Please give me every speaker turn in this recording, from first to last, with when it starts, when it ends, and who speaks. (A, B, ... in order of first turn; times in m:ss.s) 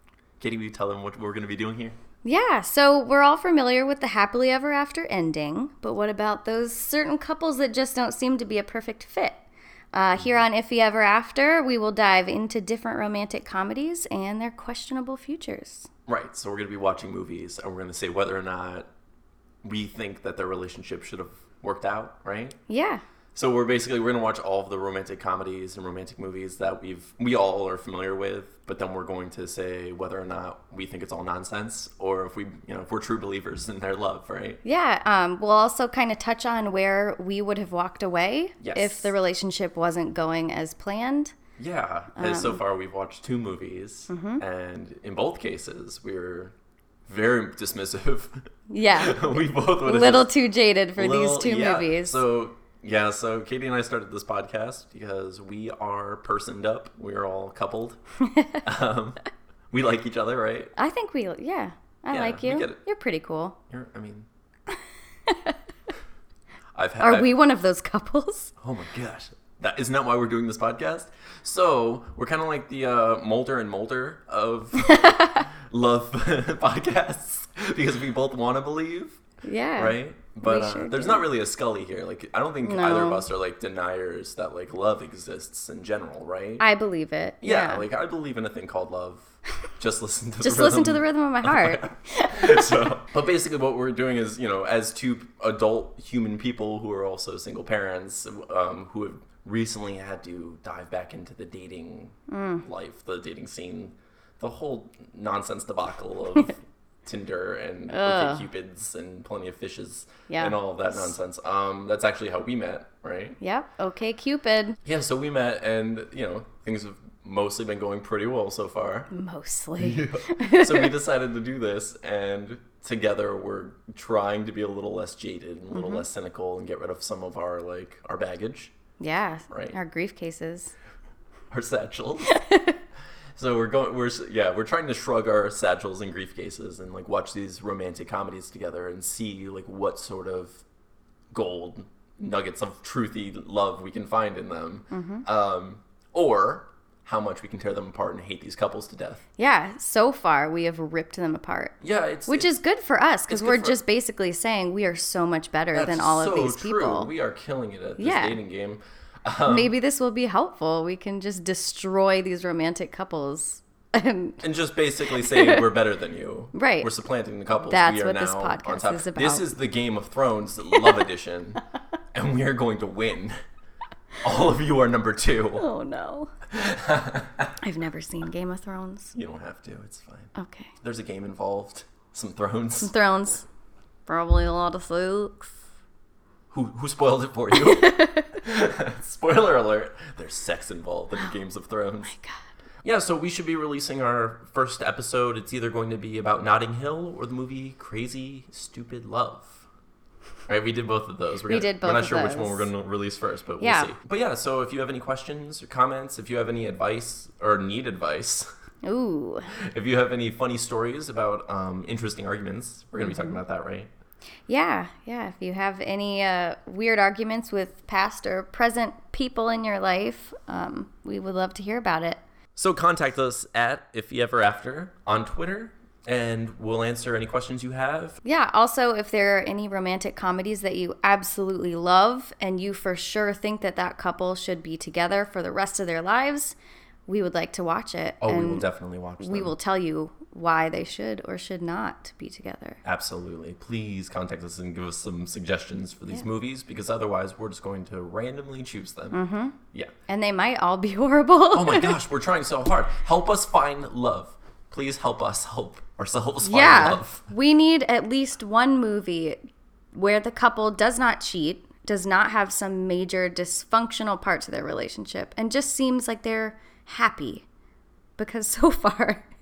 0:00.4-0:02.0 A
0:02.2-0:09.4 B
0:09.9-0:15.9 B
0:16.1-0:18.9 A
0:19.6-0:22.6 A
0:22.7-0:23.0 B
0:23.4-0:34.6 A
0:34.6-0:41.3 B
0:38.6-0:39.1 A
0:41.6-0:46.5 A
0:42.2-0:42.6 B
0:44.1-0:44.4 B
0:47.1-0:50.3 A
0:48.7-0:52.2 B
0:51.0-0:58.0 A
0:58.2-0:58.6 B
0:58.6-1:00.7 A
1:00.8-1:03.6 B
1:02.1-1:02.8 A
1:03.7-1:04.3 A
1:05.3-1:05.6 B
1:06.8-1:07.4 A
1:07.0-1:08.5 B
1:08.6-1:19.2 A
1:14.8-1:15.5 B
1:19.4-1:21.2 B
1:19.8-1:26.7 A
1:22.6-1:23.3 B
1:26.6-1:27.9 B
1:27.4-1:53.4 A
1:30.4-1:32.7 B
1:42.3-1:42.6 B
1:47.9-1:48.5 B
1:50.3-1:51.1 B
1:53.4-1:54.8 B
1:54.8-1:59.1 A
1:59.1-2:01.0 B
1:59.8-2:08.7 A
2:05.7-2:06.0 B
2:09.0-2:10.7 B
2:09.5-2:09.8 A
2:11.5-2:12.4 A
2:12.2-2:12.8 B
2:13.4-2:20.6 A
2:21.3-2:29.2 A
2:24.9-2:25.2 B
2:29.4-2:37.1 B
2:31.8-2:32.5 A
2:33.3-2:33.8 A
2:35.7-2:39.8 A
2:38.0-2:38.4 B
2:39.5-2:44.4 B
2:44.4-2:53.4 A
2:45.1-2:45.7 B
2:46.5-2:46.9 B
2:47.7-2:49.5 B
2:54.2-2:55.7 A
2:55.6-2:56.3 B
2:56.5-2:57.5 A
2:57.6-2:59.2 B
2:59.2-3:02.9 A
3:00.4-3:00.7 B
3:02.8-3:03.5 B
3:04.1-3:05.6 B
3:06.5-3:12.1 A
3:07.6-3:08.3 B
3:12.1-3:12.4 B
3:12.8-3:19.6 A
3:20.5-3:28.5 A
3:21.5-3:22.7 B
3:23.6-3:23.9 B
3:28.8-3:29.5 B
3:29.5-3:33.9 A
3:33.0-3:33.4 B
3:34.5-3:42.2 B
3:42.6-3:48.2 A
3:48.2-3:56.6 B
3:57.1-3:58.6 B
3:58.2-3:59.5 A
3:59.2-4:02.8 B
4:02.8-4:09.2 A
4:09.1-4:09.6 B
4:10.1-4:12.0 B
4:11.5-4:17.3 A
4:16.4-4:19.4 B
4:19.9-4:27.4 B
4:28.2-4:29.3 B